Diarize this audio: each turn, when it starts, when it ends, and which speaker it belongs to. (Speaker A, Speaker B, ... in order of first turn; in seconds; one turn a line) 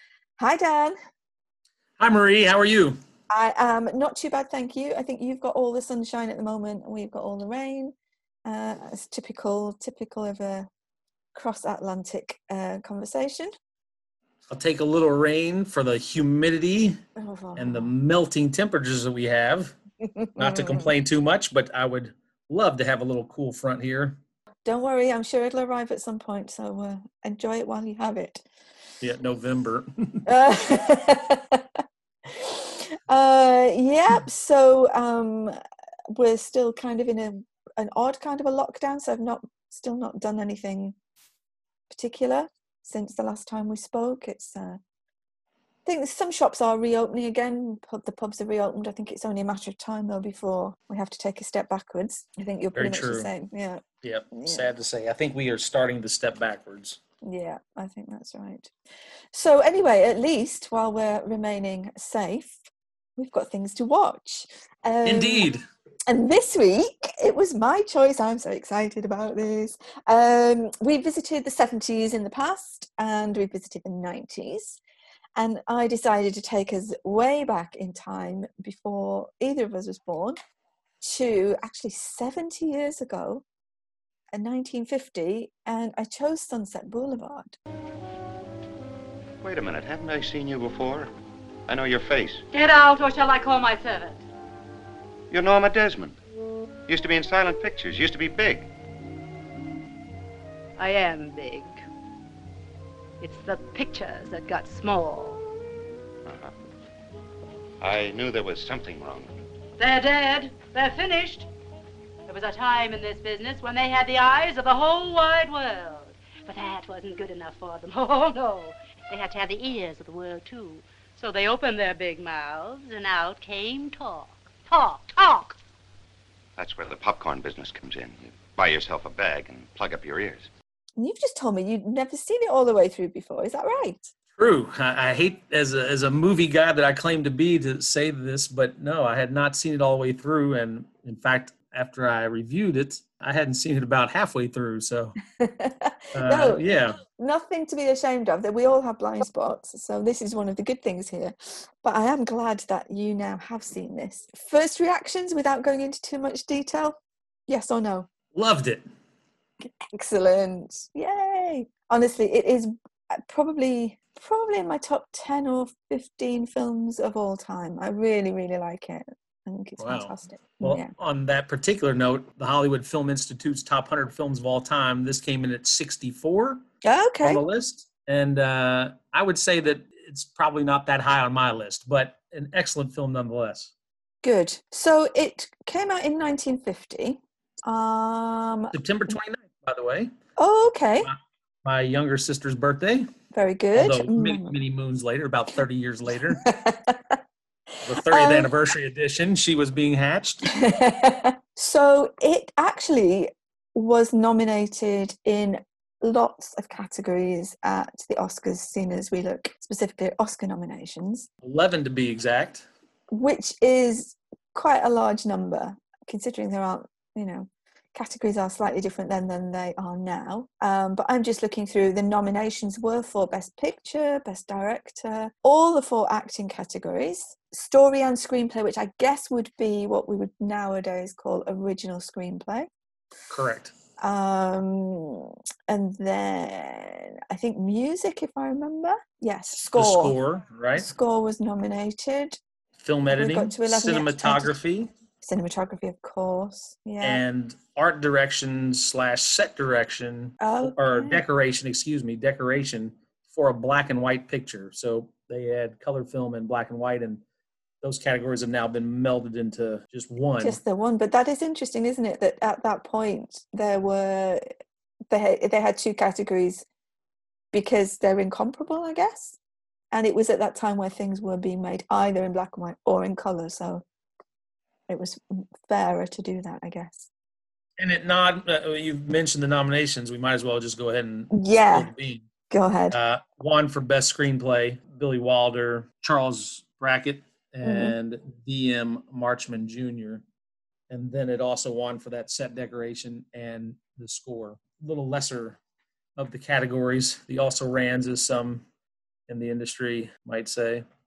Speaker A: 0.4-1.0
Speaker B: 2.0-3.0
Speaker A: 3.3-7.9
Speaker A: 8.4-10.7
Speaker A: 11.3-13.5
Speaker B: 14.5-17.0
Speaker A: 17.2-17.9
Speaker B: 17.6-19.8
Speaker A: 20.0-20.9
Speaker B: 20.4-24.2
Speaker A: 24.6-28.4
Speaker B: 29.0-30.3
Speaker A: 30.2-31.6
Speaker A: 32.3-35.6
Speaker A: 36.1-40.9
Speaker A: 41.9-44.8
Speaker A: 45.9-54.6
Speaker B: 52.7-53.3
Speaker B: 54.0-57.0
Speaker A: 57.2-58.7
Speaker A: 59.3-62.6
Speaker A: 63.2-65.5
Speaker B: 65.0-65.6
Speaker A: 66.1-74.8
Speaker A: 75.3-80.4
Speaker A: 81.0-83.4
Speaker A: 84.3-87.6
Speaker C: 89.4-91.1
Speaker C: 91.7-92.4
Speaker D: 92.5-94.2
Speaker C: 95.3-96.2
Speaker C: 96.9-98.7
Speaker D: 100.8-101.8
Speaker D: 103.2-105.4
Speaker C: 106.2-106.5
Speaker C: 107.8-109.3
Speaker D: 109.8-111.5
Speaker D: 112.3-125.6
Speaker C: 126.6-130.5
Speaker A: 131.0-134.1
Speaker B: 134.4-145.2
Speaker A: 145.4-157.0
Speaker B: 146.1-147.0
Speaker A: 157.5-158.1
Speaker B: 158.3-158.8
Speaker A: 159.6-170.9
Speaker B: 169.8-176.6
Speaker A: 176.8-177.4
Speaker B: 177.2-183.7
Speaker A: 184.2-188.7
Speaker B: 188.7-190.1
Speaker A: 190.4-191.1
Speaker B: 191.0-193.1
Speaker A: 193.3-194.5
Speaker B: 193.7-196.4
Speaker A: 196.4-197.2
Speaker B: 197.8-200.5
Speaker A: 197.9-198.5
Speaker A: 200.5-211.3
Speaker B: 211.4-212.7
Speaker A: 213.1-232.7
Speaker B: 233.3-233.7
Speaker A: 234.0-240.2
Speaker B: 239.7-240.9
Speaker A: 240.8-242.4
Speaker B: 242.8-244.9
Speaker A: 243.1-244.5
Speaker A: 245.2-247.2
Speaker B: 247.0-257.2
Speaker A: 250.4-251.2
Speaker B: 257.8-260.6
Speaker A: 260.4-264.4
Speaker A: 265.1-266.6
Speaker A: 267.5-269.4
Speaker A: 269.9-273.8
Speaker A: 274.9-277.1
Speaker B: 277.8-282.3
Speaker A: 281.3-281.9
Speaker A: 282.5-283.0
Speaker B: 282.9-290.2
Speaker A: 287.6-287.9
Speaker B: 290.9-295.6
Speaker B: 296.2-298.6
Speaker B: 299.3-300.8